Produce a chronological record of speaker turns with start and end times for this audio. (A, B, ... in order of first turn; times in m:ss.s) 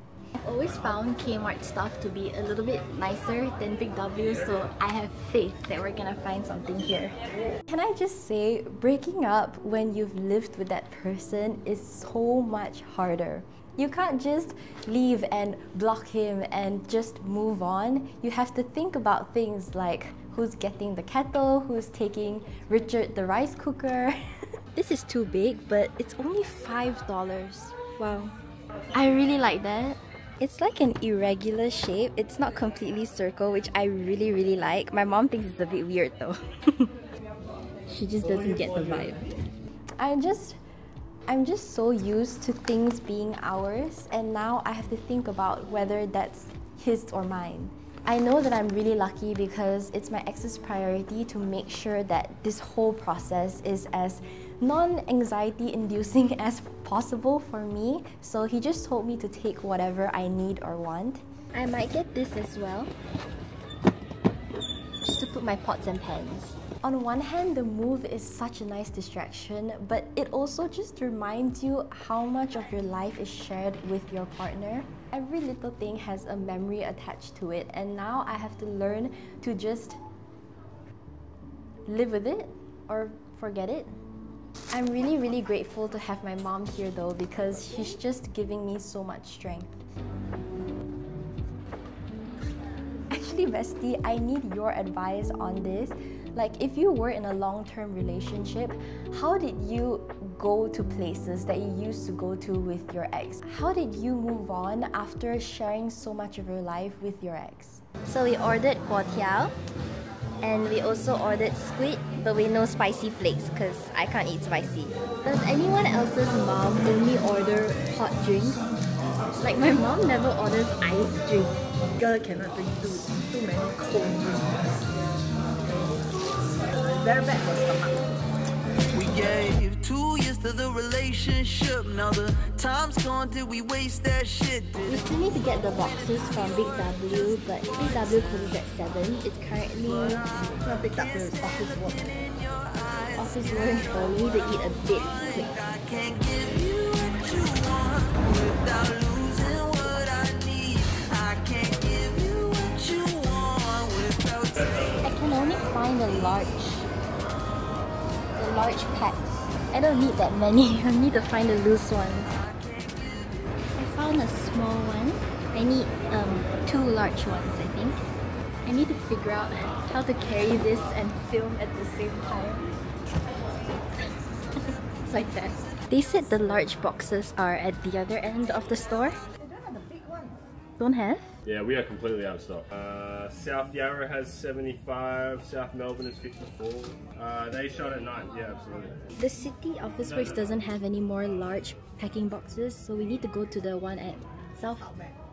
0:00.4-0:24.2 A
0:24.7-0:28.4 A
0:28.9-0:36.9 A
0:37.9-0:39.3 A
0:40.0-0:40.6 A
0:41.3-1:02.9 A
1:05.0-1:20.0 A
1:21.8-1:23.9 A
1:24.7-1:29.8 A
1:33.1-1:49.6 A
1:50.4-1:58.6 A
1:59.4-2:01.6 A
2:02.0-2:04.9 B
2:05.4-2:08.2 B
2:08.9-2:14.9 C
2:14.8-2:20.2 A
2:20.6-2:22.0 B
2:21.8-2:22.8 C
2:23.2-2:25.6 A
2:25.6-2:35.0 C
2:35.0-2:36.9 A
2:38.3-2:42.3 A
2:42.6-2:43.0 C
2:43.8-2:48.0 A
2:48.6-2:52.7 A
2:55.0-2:59.2 A
2:59.4-3:00.4 B
3:00.8-3:01.4 A
3:01.4-3:09.1 D
3:09.2-3:14.9 A
3:14.9-3:15.1 B